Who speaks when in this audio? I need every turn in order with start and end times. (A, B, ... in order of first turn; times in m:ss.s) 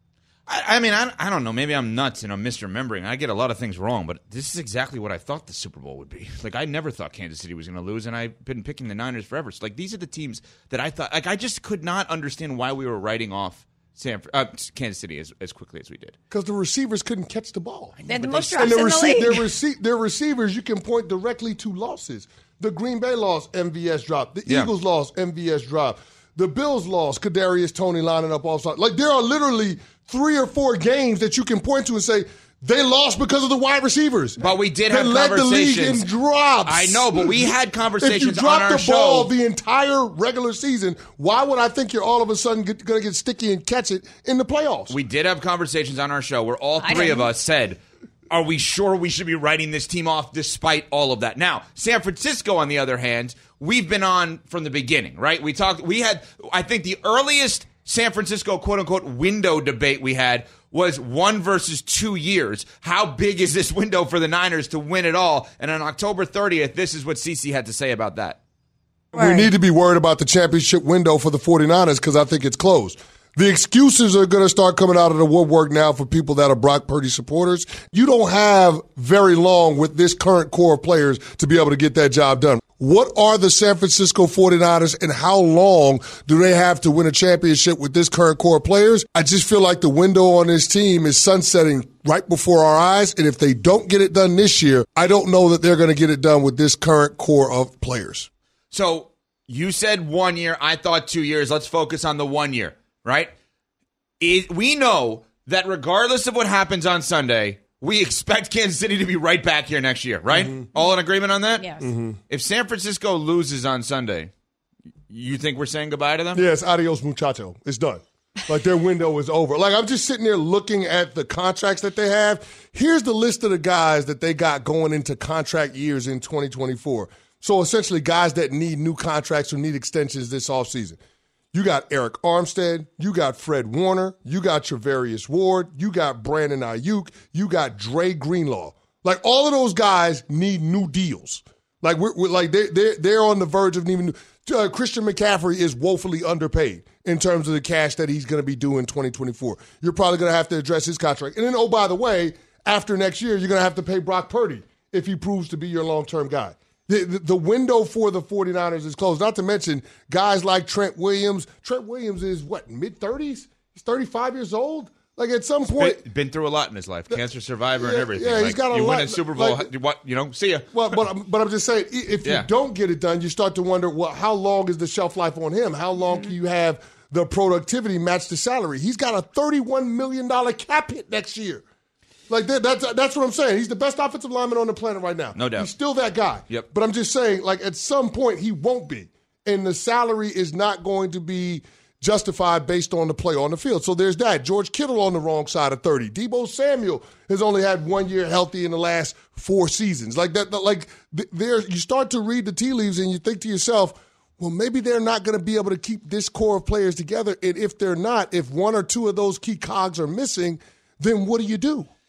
0:00.5-0:16.2 A
0:16.3-0:18.0 B
0:18.0-0:19.0 A
0:18.1-0:19.4 C
0:18.6-0:45.0 B
0:34.4-0:36.1 A
0:36.7-0:39.3 A
0:44.9-0:47.8 A
0:46.8-0:47.3 C
0:48.3-1:08.4 A
1:09.1-1:38.3 B
1:09.2-1:09.5 C
1:38.7-1:43.3 A
1:44.2-1:51.7 A
1:50.3-1:50.6 B
1:51.6-1:51.8 C
1:51.8-1:52.2 B
1:52.3-1:54.3 A
1:55.1-1:56.4 A
1:56.3-2:11.0 B
2:11.5-2:46.0 B
2:45.8-2:50.7 A
2:47.8-2:49.7 B
2:50.7-3:01.6 B
3:02.3-3:31.9 B
3:05.4-3:05.7 A